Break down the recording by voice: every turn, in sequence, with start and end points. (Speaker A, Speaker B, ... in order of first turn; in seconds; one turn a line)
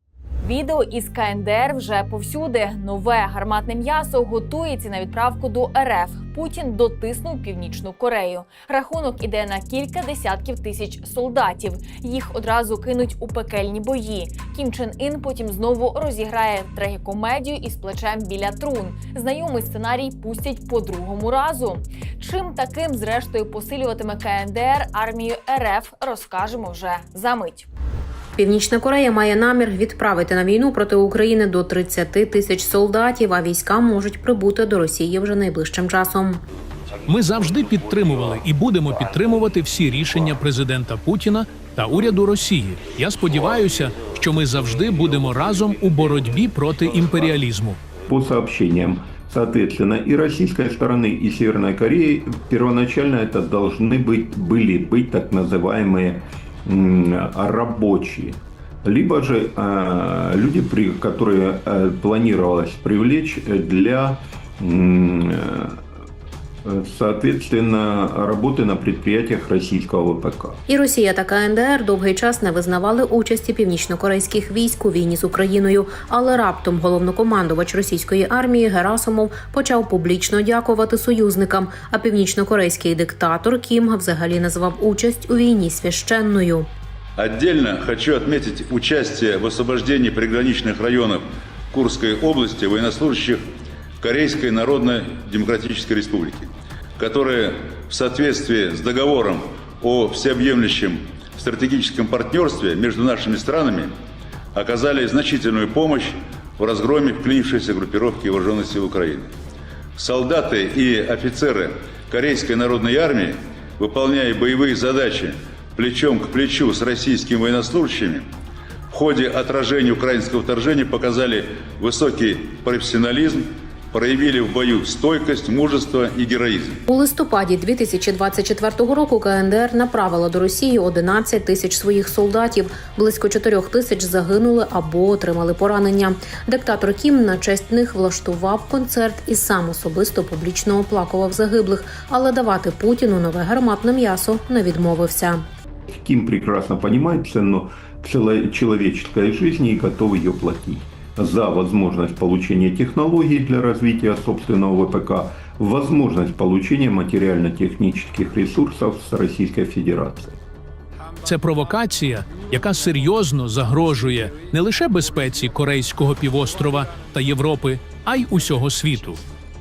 Speaker A: 0.4-27.7
Speaker B: 28.4-36.4
Speaker C: 37.1-47.8
Speaker D: 48.1-65.8
Speaker D: 66.7-70.6
Speaker B: 70.7-86.7
Speaker E: 87.2-93.5
Speaker E: 94.0-103.9
Speaker E: 104.5-109.3
Speaker E: 110.0-118.3
Speaker E: 118.9-126.8
Speaker B: 126.9-145.5
Speaker D: 145.9-160.4
Speaker C: 161.2-169.2